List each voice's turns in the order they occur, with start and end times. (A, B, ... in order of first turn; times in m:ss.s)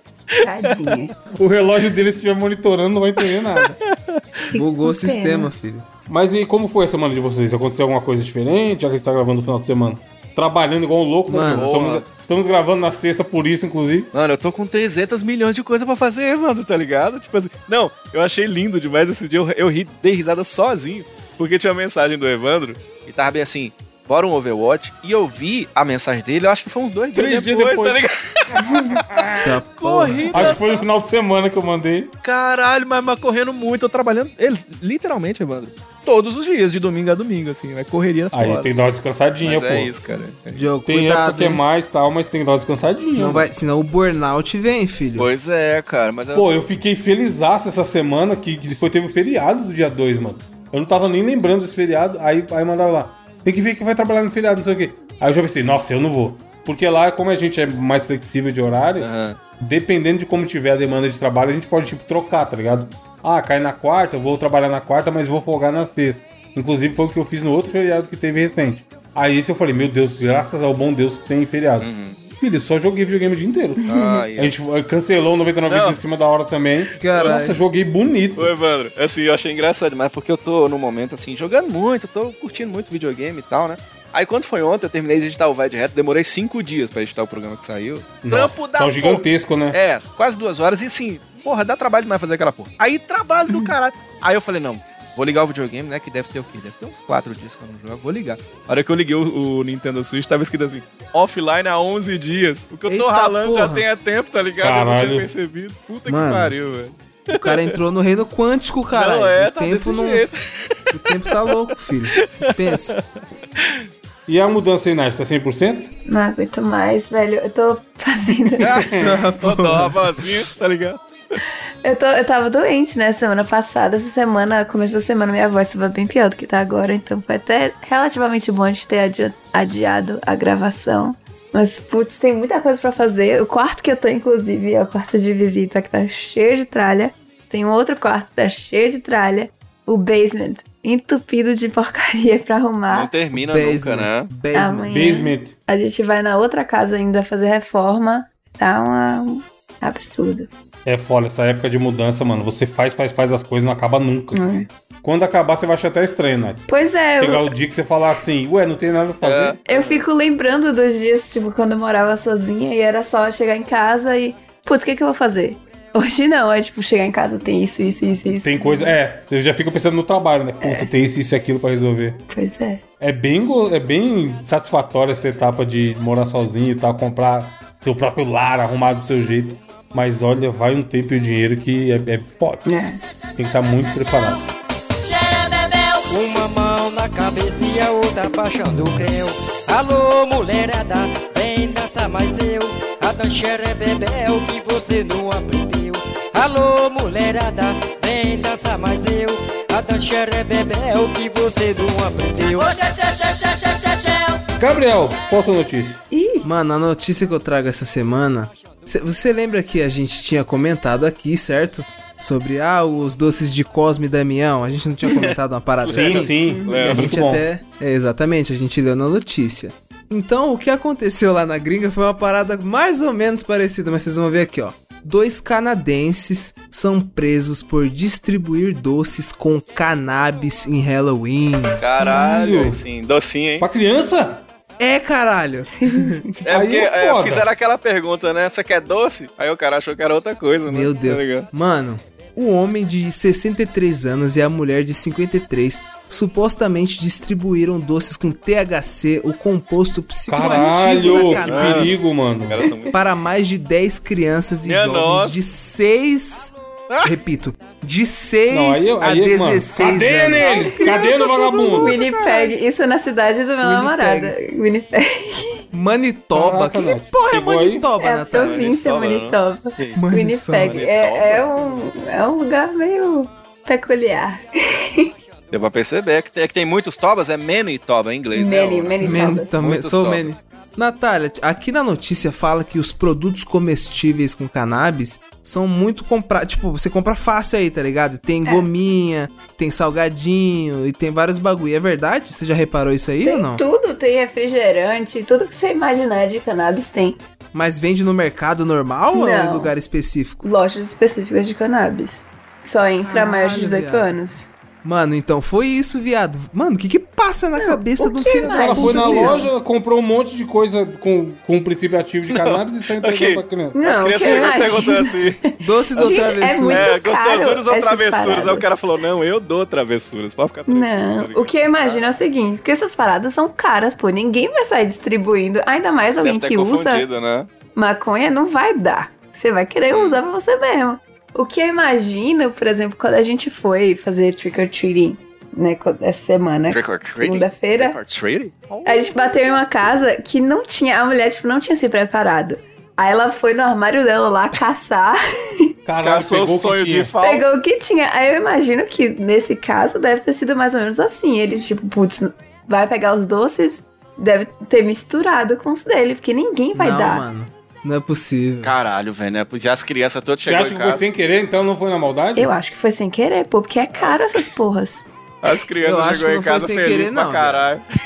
0:00.4-0:01.2 A
0:01.3-0:03.8 B
0:03.9-0:04.2 C
0:04.5-0:05.5 A
0:04.5-0:05.9 D
0:06.1-0:14.1 B
0:11.3-0:11.7 D
0:11.5-0:12.0 C
0:14.1-0:28.9 C
0:27.1-0:29.5 B
0:29.4-0:30.6 D
0:29.8-0:30.9 C
0:30.3-0:32.1 B
0:32.2-0:38.7 C
0:38.3-0:39.9 B
0:39.4-0:40.7 C
0:40.5-0:41.6 D
0:40.9-0:43.5 B
0:43.1-0:45.3 D
0:45.2-0:46.6 C
0:46.4-1:18.5 B
0:59.0-0:59.4 C
1:11.8-1:12.2 C
1:13.9-1:14.6 C
1:15.7-1:16.0 C
1:17.0-1:17.6 D
1:17.1-1:17.4 C
1:18.4-1:47.8 C
1:28.2-1:29.8 B
1:42.9-1:43.9 D
1:44.6-1:45.3 B
1:46.1-1:46.6 D
1:47.3-1:50.3 D
1:48.9-1:50.8 C
1:50.9-1:53.0 D
1:52.2-1:53.0 C
1:54.3-1:55.9 B
1:56.1-1:58.8 A
1:58.6-2:01.0 C
1:58.8-1:59.2 B
1:59.0-2:00.3 D
2:01.8-2:23.1 A
2:22.9-2:24.3 C
2:23.3-2:25.2 D
2:24.5-2:30.5 A
2:24.9-2:25.6 B
2:30.8-2:34.5 B
2:34.3-2:34.7 A
2:35.0-2:36.7 B
2:36.7-2:37.5 A
2:37.2-2:39.6 B
2:39.2-2:40.0 C
2:39.7-2:48.9 A
2:48.4-2:52.2 B
2:50.6-2:50.9 A
2:52.3-2:52.8 A
2:53.0-3:02.7 B
3:02.7-3:03.0 A
3:03.4-3:04.4 B
3:05.3-3:22.8 E
3:24.6-3:26.0 B
3:26.1-3:26.5 A
3:26.4-3:51.9 D
3:35.8-3:37.1 C
3:35.8-3:37.4 B
3:51.8-3:53.7 C
3:52.0-3:52.8 B
3:53.6-3:54.4 B
3:54.8-3:56.2 D
3:56.4-4:01.5 C
3:56.5-3:57.5 B
4:00.7-4:12.1 D
4:10.3-4:12.7 B
4:11.2-4:12.9 C
4:12.9-4:20.9 D
4:14.6-4:15.4 C
4:16.9-4:17.2 C
4:18.5-4:22.0 B
4:20.4-4:25.6 A
4:21.8-4:22.6 C
4:23.6-4:24.4 D
4:25.7-4:28.7 D
4:26.3-4:27.9 B
4:28.0-4:35.1 A
4:28.3-4:31.9 C
4:30.0-4:30.9 D
4:35.5-4:40.2 C
4:38.4-4:39.6 A
4:39.0-4:53.6 D
4:53.2-4:57.2 A
4:57.5-5:00.4 D
4:59.1-4:59.7 A
5:00.4-5:04.5 A
5:03.0-5:04.2 D
5:04.8-5:09.5 D
5:07.6-5:09.5 A
5:08.4-5:13.8 B
5:12.3-5:15.4 C
5:13.7-5:15.3 A
5:14.2-5:14.5 D
5:15.6-5:17.0 D
5:16.0-5:18.8 A
5:16.7-5:22.2 C
5:20.7-5:27.0 A
5:26.2-5:27.5 C
5:27.8-5:38.0 A
5:29.9-5:30.2 C
5:36.7-5:39.6 C
5:38.8-5:45.7 A
5:45.9-5:47.1 B
5:46.0-5:47.6 C
5:47.2-5:57.2 A
5:56.7-5:58.8 D
5:58.6-6:01.0 C
6:00.4-6:02.5 B
6:02.4-6:05.1 A
6:03.9-6:04.5 C
6:05.4-6:07.8 C
6:05.8-6:07.7 D